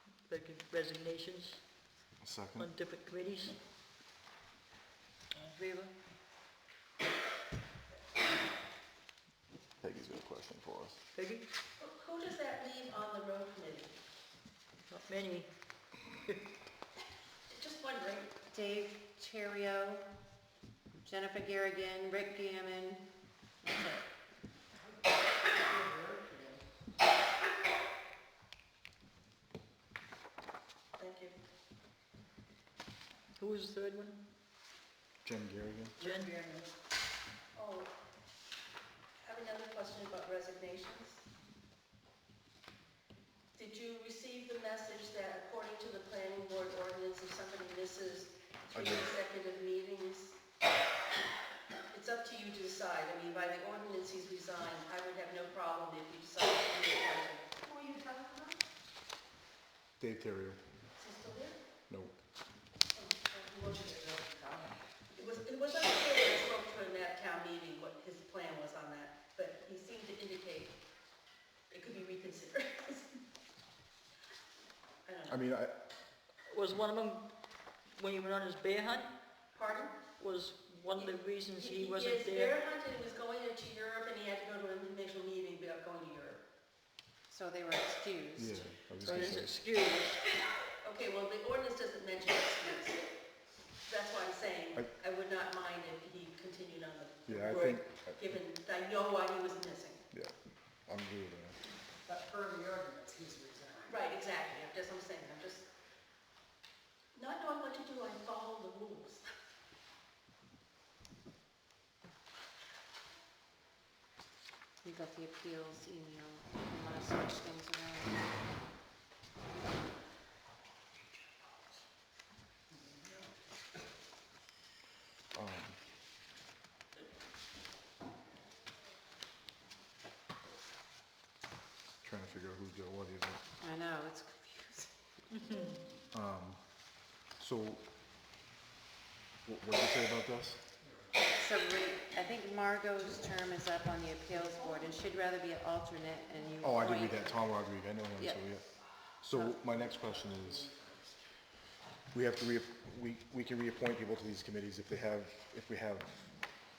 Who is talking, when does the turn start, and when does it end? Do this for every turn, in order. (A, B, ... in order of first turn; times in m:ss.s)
0:00.2-0:01.6 A
0:02.2-0:02.7 B
0:02.6-0:03.6 A
0:05.3-0:05.9 A
0:09.8-0:11.0 B
0:11.1-0:11.4 A
0:11.8-0:13.9 C
0:14.9-0:15.5 A
0:17.5-0:18.3 C
0:18.5-0:20.1 D
0:21.0-0:23.0 D
0:23.6-0:24.0 D
0:25.6-0:26.6 E
0:31.0-0:31.4 C
0:33.4-0:34.2 A
0:35.2-0:35.9 B
0:36.0-0:36.3 A
0:36.0-0:36.7 E
0:37.5-0:37.9 C
0:39.2-0:41.2 C
0:43.5-0:50.4 C
0:48.7-0:49.1 B
0:51.9-0:57.5 C
0:57.6-0:58.6 E
1:00.0-1:00.6 B
1:01.0-1:01.6 C
1:01.9-1:02.1 B
1:02.9-1:10.7 C
1:11.7-1:13.1 C
1:15.0-1:15.4 C
1:15.2-1:15.7 B
1:16.5-1:17.2 A
1:17.9-1:19.1 A
1:19.5-1:20.0 C
1:20.0-1:22.6 A
1:20.9-1:26.4 C
1:27.3-1:28.9 D
1:28.4-1:29.5 B
1:29.0-1:30.2 A
1:30.8-1:33.0 C
1:33.8-1:40.0 C
1:37.3-1:38.2 B
1:37.4-1:37.8 A
1:40.9-1:41.6 B
1:42.1-1:44.0 E
1:43.8-1:45.7 C
1:47.1-1:49.4 C
1:54.8-1:58.4 D
2:05.3-2:05.8 B
2:12.0-2:13.4 B
2:13.6-2:15.0 D
2:15.4-2:15.8 A
2:16.1-2:16.6 B
2:17.4-2:17.8 B
2:19.4-2:20.6 B
2:21.3-2:27.4 D
2:26.6-2:28.7 B
2:29.2-2:30.7 B
2:29.3-2:29.6 D
2:29.9-2:30.9 E
2:32.1-2:36.2 B